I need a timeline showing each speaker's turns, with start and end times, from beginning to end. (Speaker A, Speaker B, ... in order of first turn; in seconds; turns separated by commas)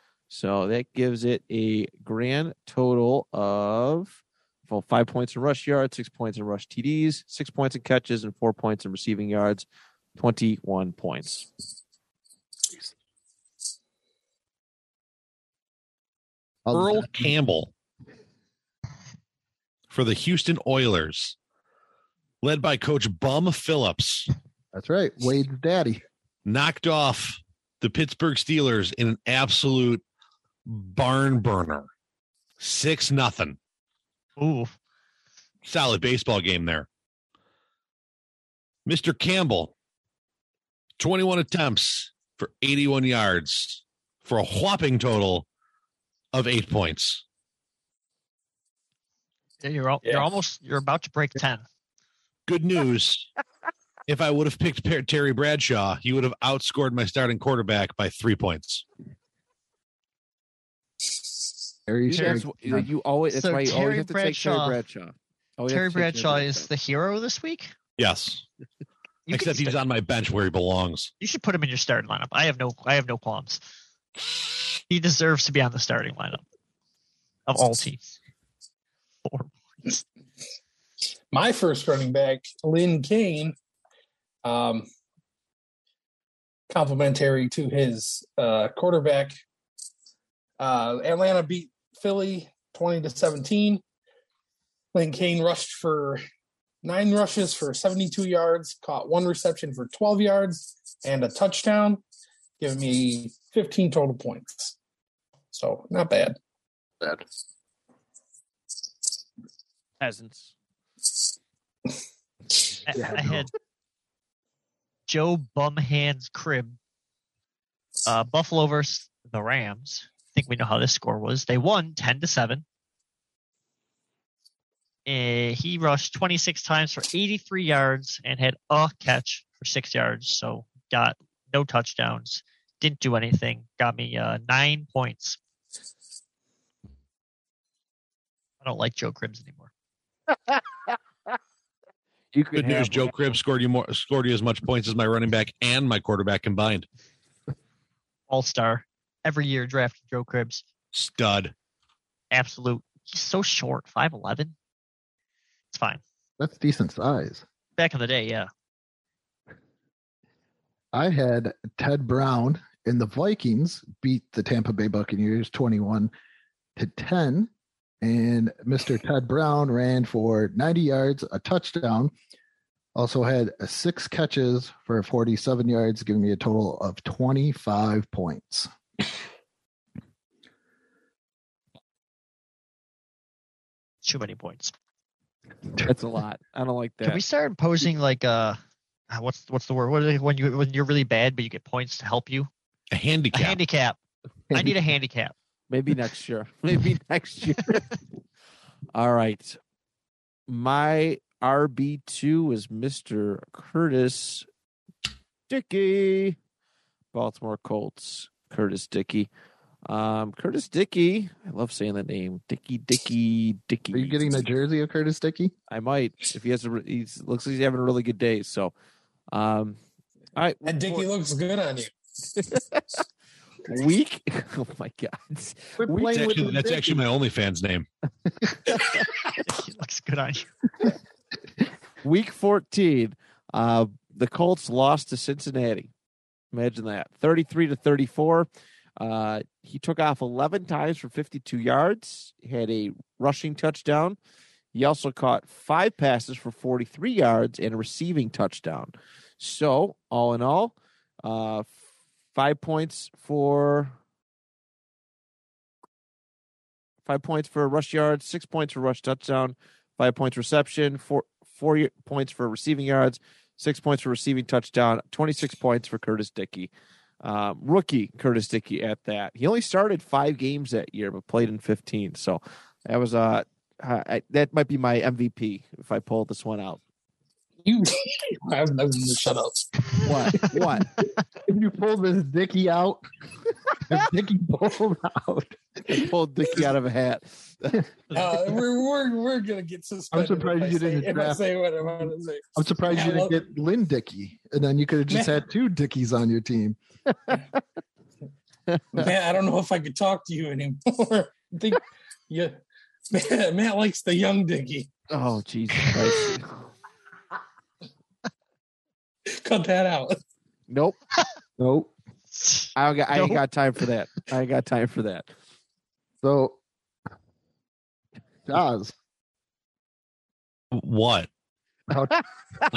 Speaker A: 0.3-11.5, Speaker B: 16.7-17.3, Speaker C: 16.7-17.7, Speaker C: 19.9-21.4, Speaker C: 22.4-24.3, Speaker B: 24.7-26.0, Speaker C: 26.5-30.0, Speaker C: 30.7-31.9, Speaker C: 32.6-33.6, Speaker D: 34.4-34.8, Speaker C: 35.6-36.9, Speaker C: 38.9-39.7, Speaker C: 41.0-45.5, Speaker C: 46.3-47.2, Speaker D: 49.6-51.6, Speaker E: 50.0-50.3, Speaker C: 52.5-53.3, Speaker C: 54.1-58.8, Speaker B: 61.9-62.9, Speaker A: 62.1-66.7, Speaker D: 63.3-64.8, Speaker D: 65.7-67.7, Speaker C: 68.0-68.5, Speaker D: 69.3-69.8, Speaker C: 69.3-71.1, Speaker D: 71.2-73.6, Speaker D: 74.8-76.4, Speaker D: 77.5-78.2, Speaker D: 79.2-80.0, Speaker E: 81.3-83.5, Speaker E: 84.4-84.9, Speaker E: 86.7-89.3, Speaker E: 90.6-93.8, Speaker E: 94.9-96.2, Speaker E: 96.8-102.0, Speaker E: 102.6-104.8, Speaker E: 105.5-106.4, Speaker A: 110.0-110.5, Speaker D: 112.9-113.5, Speaker B: 112.9-113.5, Speaker D: 115.1-116.8, Speaker D: 118.1-122.6, Speaker D: 125.1-135.4, Speaker D: 138.6-139.7, Speaker A: 140.5-141.0, Speaker A: 142.3-143.3, Speaker C: 142.6-146.9, Speaker D: 148.3-150.6, Speaker C: 150.9-151.5, Speaker D: 152.3-154.5, Speaker D: 155.7-156.0, Speaker B: 156.4-157.4, Speaker D: 157.8-158.5, Speaker B: 160.9-166.1, Speaker B: 166.8-167.5, Speaker B: 168.0-172.1, Speaker B: 172.9-178.7, Speaker D: 184.0-184.7, Speaker A: 185.8-187.2, Speaker D: 187.0-188.6, Speaker D: 189.1-192.5, Speaker C: 192.9-193.6, Speaker D: 193.3-194.0, Speaker D: 194.5-195.3, Speaker A: 195.7-197.9, Speaker A: 198.9-199.6, Speaker A: 200.5-204.5, Speaker A: 205.5-206.4, Speaker A: 207.1-209.3, Speaker A: 209.9-214.2, Speaker B: 213.9-215.5, Speaker A: 215.7-218.7, Speaker A: 219.3-219.8, Speaker A: 220.4-221.1, Speaker E: 220.7-221.9, Speaker A: 222.4-223.0, Speaker A: 223.7-226.8, Speaker B: 225.8-227.0, Speaker C: 226.1-227.9, Speaker D: 228.7-230.5, Speaker A: 232.0-235.9, Speaker A: 236.5-244.2, Speaker A: 244.7-251.8, Speaker A: 252.3-254.0, Speaker A: 257.1-266.7, Speaker A: 267.2-276.8, Speaker E: 277.6-279.9, Speaker B: 280.1-280.9, Speaker A: 280.1-280.9, Speaker B: 281.4-283.0, Speaker B: 283.9-286.1, Speaker A: 285.9-287.9, Speaker E: 288.1-293.4, Speaker B: 290.1-291.4, Speaker B: 292.6-296.8, Speaker E: 295.1-295.4, Speaker E: 298.9-302.6, Speaker E: 303.1-304.9, Speaker A: 305.1-306.7, Speaker E: 309.3-310.2, Speaker A: 310.7-311.0, Speaker B: 311.6-311.9, Speaker D: 312.3-313.4, Speaker A: 312.8-315.3, Speaker B: 316.2-316.6, Speaker B: 318.5-318.9, Speaker C: 320.7-321.3, Speaker B: 321.9-322.2